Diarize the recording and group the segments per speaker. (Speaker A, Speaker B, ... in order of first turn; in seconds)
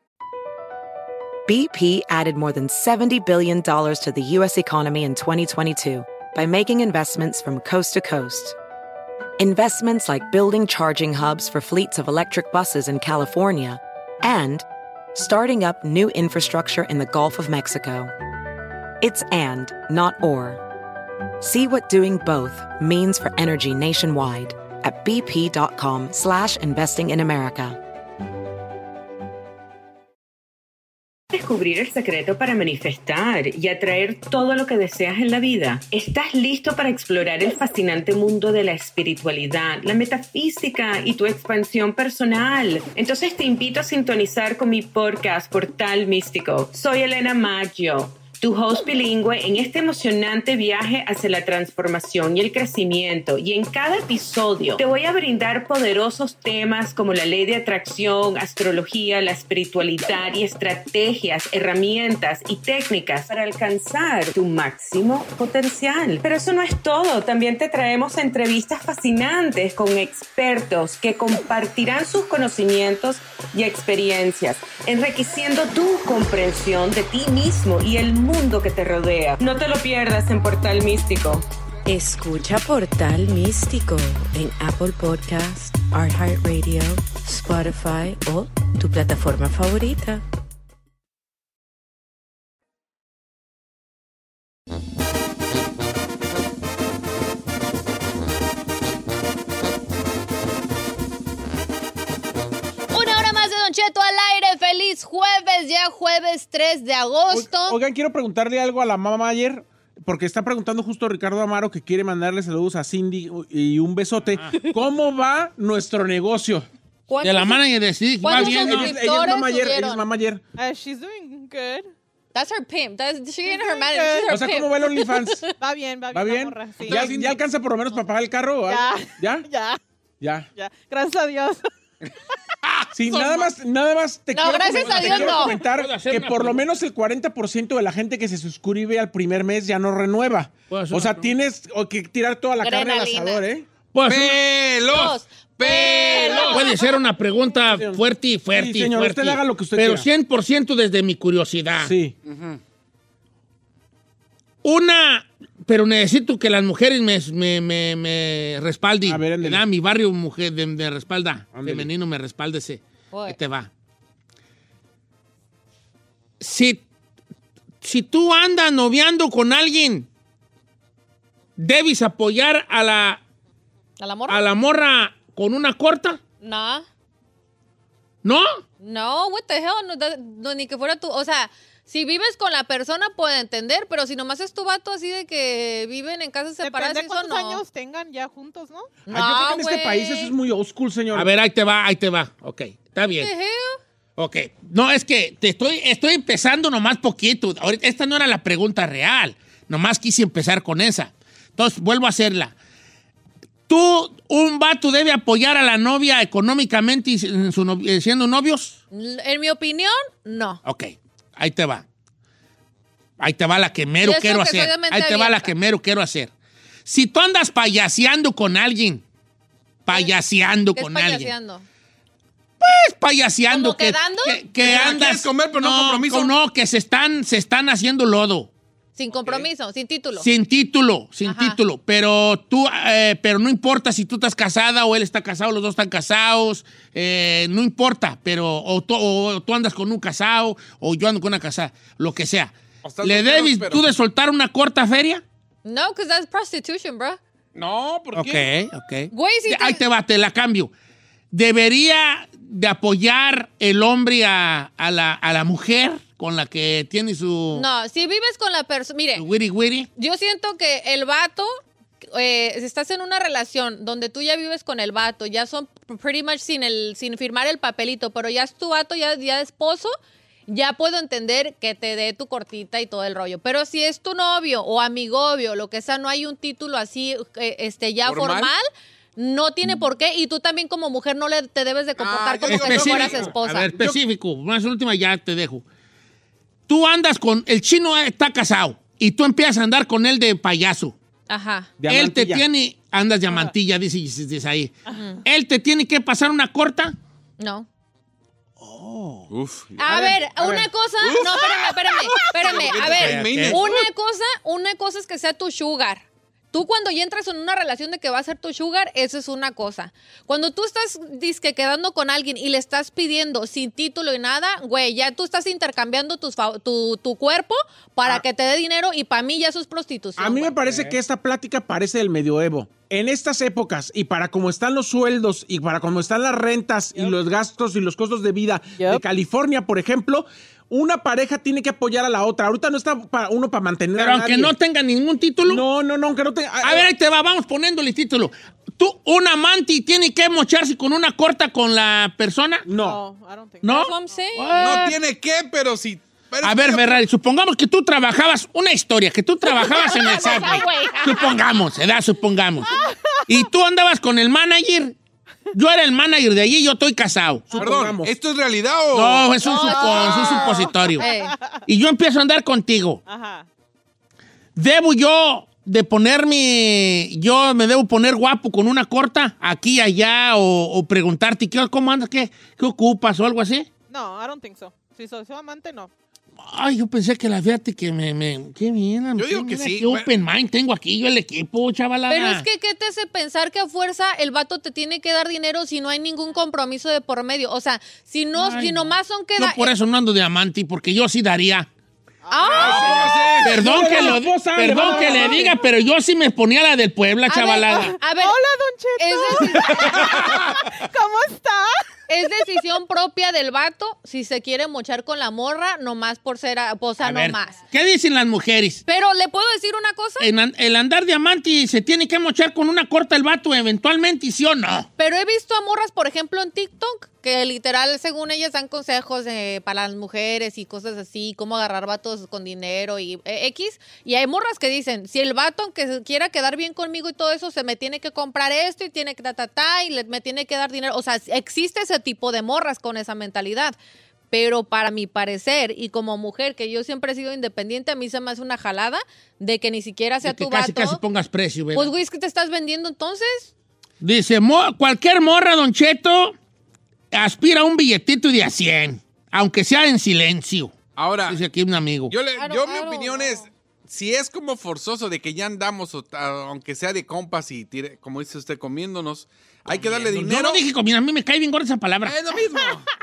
Speaker A: 1.5-8.6, 9.4-18.1, 19.0-20.6, 21.4-27.8
Speaker B: 31.3-81.5
Speaker C: 81.9-90.2
Speaker D: 102.9-107.8, 117.1-117.6, 118.2-120.0, 122.3-125.4, 134.3-135.5, 142.6-143.4, 144.9-146.9, 163.1-163.4, 174.0-174.4, 176.4-176.9, 178.8-187.6, 189.1-190.3, 193.2-193.8, 208.9-210.6, 214.0-215.5, 220.7-221.6, 223.5-224.4, 229.0-230.3, 231.3-231.6, 245.6-247.2, 249.1-249.8, 257.5-259.2, 260.0-261.6, 262.1-269.9, 270.5-278.6, 279.1-283.7, 291.3-291.7, 294.9-295.2, 297.4-297.7, 299.8-320.6, 343.7-344.9, 349.5-351.3, 359.4-361.3, 382.1-389.7, 392.3-393.4, 397.3-398.4, 399.0-400.2, 402.1-407.6, 408.9-410.3, 415.0-433.8, 434.3-441.0, 441.7-443.5, 452.4-453.4
Speaker E: 107.3-116.7, 118.3-120.4, 124.3-125.5, 126.1-129.5, 130.2-130.5, 132.9-143.7, 147.7-148.0, 148.5-150.1, 151.8-152.1, 159.1-159.6, 161.6-161.9, 189.1-191.3, 291.8-292.4, 299.9-300.7, 320.2-334.5, 335.4-336.9, 342.7-343.0, 357.5-358.1, 393.5-395.5
Speaker F: 114.3-114.6, 117.2-119.0, 126.9-127.3, 134.8-136.6, 140.7-141.3, 143.9-144.4, 146.5-151.9, 154.6-163.7, 166.4-166.8, 167.8-170.1, 171.6-173.2, 174.3-176.2, 178.2-178.6, 191.1-193.3, 194.2-202.6, 203.7-208.8, 210.6-211.9, 213.2-216.3, 216.9-219.0, 219.9-221.3, 222.6-228.5, 230.2-245.2, 248.1-250.7, 251.3-257.6, 259.2-259.9, 282.5-285.6, 286.7-290.9, 291.9-294.7, 295.2-296.9, 298.6-299.3, 302.7-303.6, 320.6-320.9, 334.0-335.6, 336.6-342.6, 343.6-344.9, 346.4-352.7, 353.3-354.9, 355.5-357.5, 358.9-361.0, 361.7-363.0, 364.6-373.7, 376.4-382.4, 388.4-391.7, 393.4-397.9, 407.0-408.8, 410.2-414.9, 440.2-441.9, 444.0-446.3, 447.1-452.1, 459.7-462.1
Speaker G: 120.5-121.9, 123.4-124.4, 125.5-127.1, 128.7-129.8, 130.6-131.7, 186.6-188.9, 326.9-327.2, 328.8-329.0, 342.7-344.2, 350.4-351.0, 352.7-353.2, 359.8-361.6, 363.1-363.5, 373.9-375.9, 392.3-393.3, 394.7-395.6, 397.7-401.8
Speaker H: 132.6-133.5, 144.1-146.6, 152.2-152.6, 224.6-226.3, 229.2-229.5, 242.8-243.8, 247.6-248.4, 278.1-278.5, 282.0-283.4, 299.3-300.2, 301.0-303.9, 344.6-347.0, 357.6-360.4, 379.2-380.1, 392.5-393.6, 400.0-400.5, 450.9-451.4, 452.1-460.6, 462.0-462.9